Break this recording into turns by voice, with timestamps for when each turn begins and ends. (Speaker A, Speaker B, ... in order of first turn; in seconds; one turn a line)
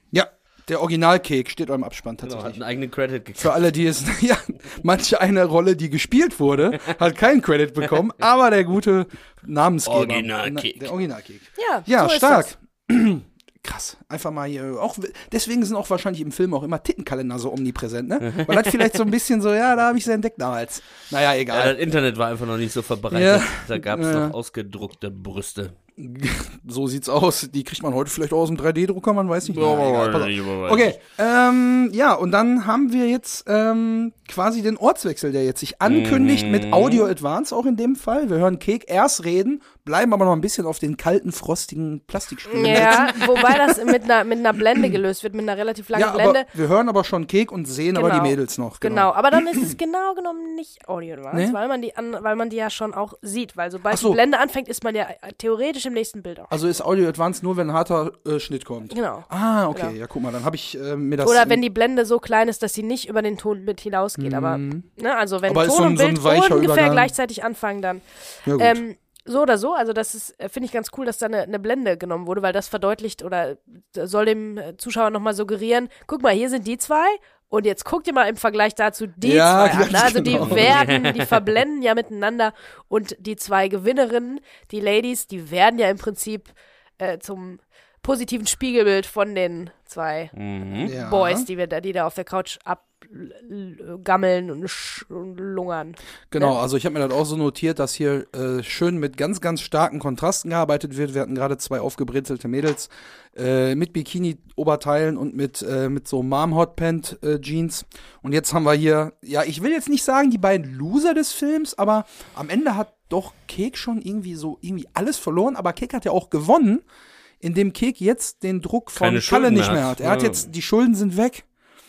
Speaker A: 0.1-2.6
Speaker B: 2.2-3.6
Speaker A: 3.4-21.8
Speaker B: 9.9-10.9
Speaker C: 11.6-12.5
Speaker B: 18.2-18.7
Speaker B: 21.5-25.7
Speaker A: 23.1-24.3
Speaker A: 26.0-44.0
Speaker B: 29.5-30.9
Speaker B: 35.9-37.0
Speaker C: 42.5-46.5
Speaker A: 45.9-49.8
Speaker C: 47.9-56.5
Speaker A: 53.9-54.2
Speaker A: 56.5-61.6
Speaker C: 58.9-59.9
Speaker C: 61.2-68.0
Speaker A: 64.2-64.9
Speaker A: 65.5-67.1
Speaker A: 68.5-68.8
Speaker C: 68.5-96.5
Speaker A: 79.2-80.8
Speaker B: 80.3-81.3
Speaker B: 90.3-90.9
Speaker A: 90.8-91.5
Speaker A: 96.3-116.8
Speaker A: 117.4-121.5
Speaker B: 119.0-120.5